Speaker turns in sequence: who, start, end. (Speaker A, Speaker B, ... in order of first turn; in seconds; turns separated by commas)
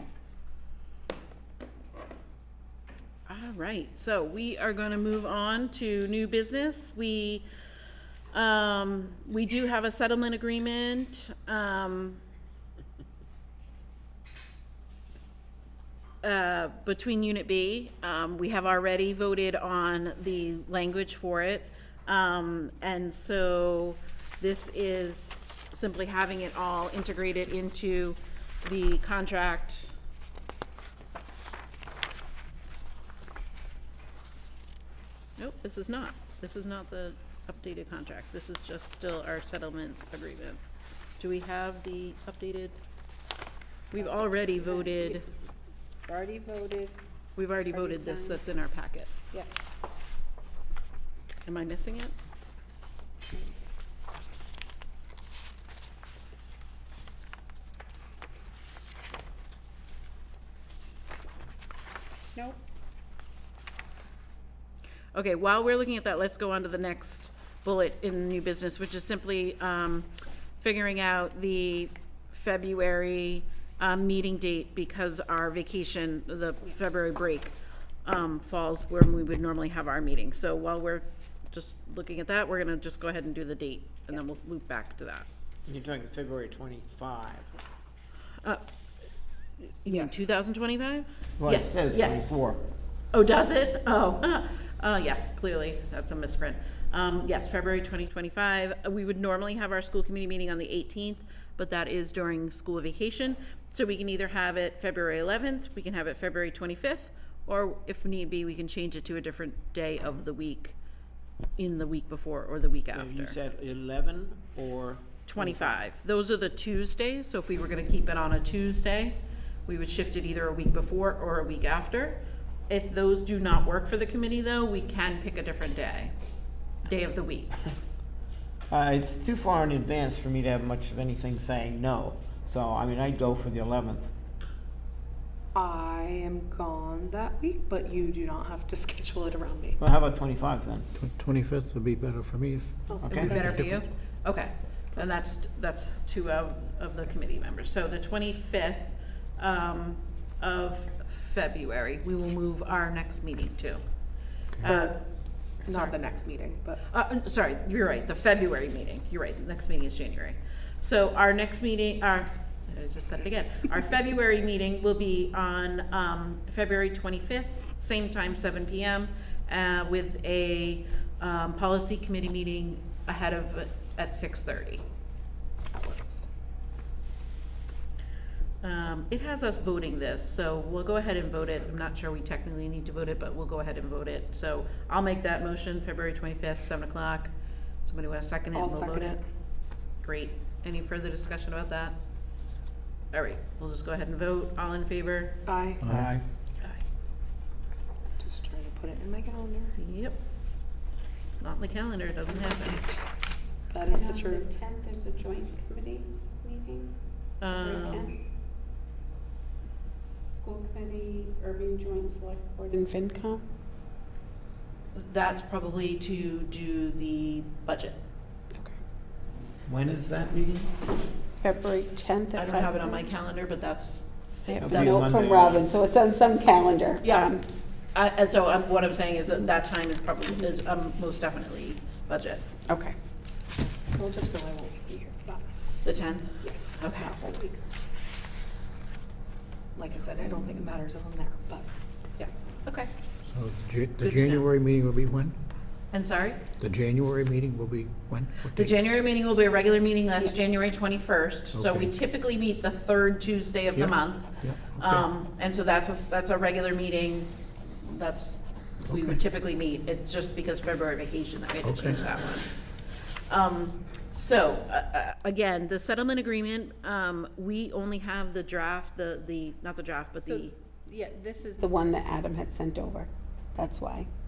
Speaker A: 3.3-7.5, Speaker A: 8.3-12.2, Speaker A: 16.2-29.9, Speaker A: 35.4-40.6, Speaker A: 41.2-42.8, Speaker A: 43.9-45.3, Speaker B: 44.0-45.2, Speaker B: 46.1-47.0, Speaker A: 47.4-49.1, Speaker B: 47.7-48.4, Speaker A: 51.5-52.1, Speaker A: 65.1-70.1, Speaker A: 70.6-85.3, Speaker C: 85.7-87.5, Speaker A: 89.8-92.4, Speaker B: 90.0-90.2, Speaker C: 91.4-92.6, Speaker A: 93.1-110.8, Speaker A: 111.6-113.4, Speaker C: 112.9-115.7, Speaker A: 115.3-126.1, Speaker A: 126.8-127.5, Speaker C: 128.7-134.1, Speaker D: 135.5-139.8, Speaker C: 139.8-140.9, Speaker E: 141.0-142.8, Speaker D: 142.9-143.2, Speaker C: 143.0-143.4, Speaker A: 143.1-153.8, Speaker D: 154.6-154.9, Speaker A: 154.6-155.0, Speaker D: 155.6-156.8, Speaker A: 155.7-156.0, Speaker A: 156.9-174.8, Speaker D: 175.7-176.3, Speaker A: 178.6-187.3, Speaker A: 187.8-189.2, Speaker D: 188.5-189.2, Speaker A: 190.0-191.9, Speaker A: 193.1-195.4, Speaker D: 195.4-195.9, Speaker C: 195.9-196.2, Speaker D: 198.2-199.8, Speaker A: 199.8-200.2, Speaker A: 201.4-203.0, Speaker D: 203.7-204.4, Speaker B: 203.9-207.0, Speaker A: 207.4-208.2, Speaker B: 207.5-208.2, Speaker B: 210.2-213.4, Speaker A: 214.9-218.0, Speaker C: 219.7-220.7, Speaker B: 221.4-223.1, Speaker A: 222.3-224.9, Speaker B: 224.5-227.4, Speaker C: 224.6-225.6, Speaker A: 227.0-227.3, Speaker A: 227.9-232.4, Speaker B: 232.7-232.9, Speaker D: 233.9-235.5, Speaker A: 235.8-237.2, Speaker D: 236.4-237.6, Speaker D: 239.8-241.7, Speaker A: 242.2-242.9, Speaker E: 243.3-245.3, Speaker A: 244.0-244.5, Speaker A: 245.9-246.4, Speaker E: 246.6-248.7, Speaker A: 248.6-270.6, Speaker E: 251.6-251.8, Speaker E: 254.4-254.7, Speaker B: 270.2-274.1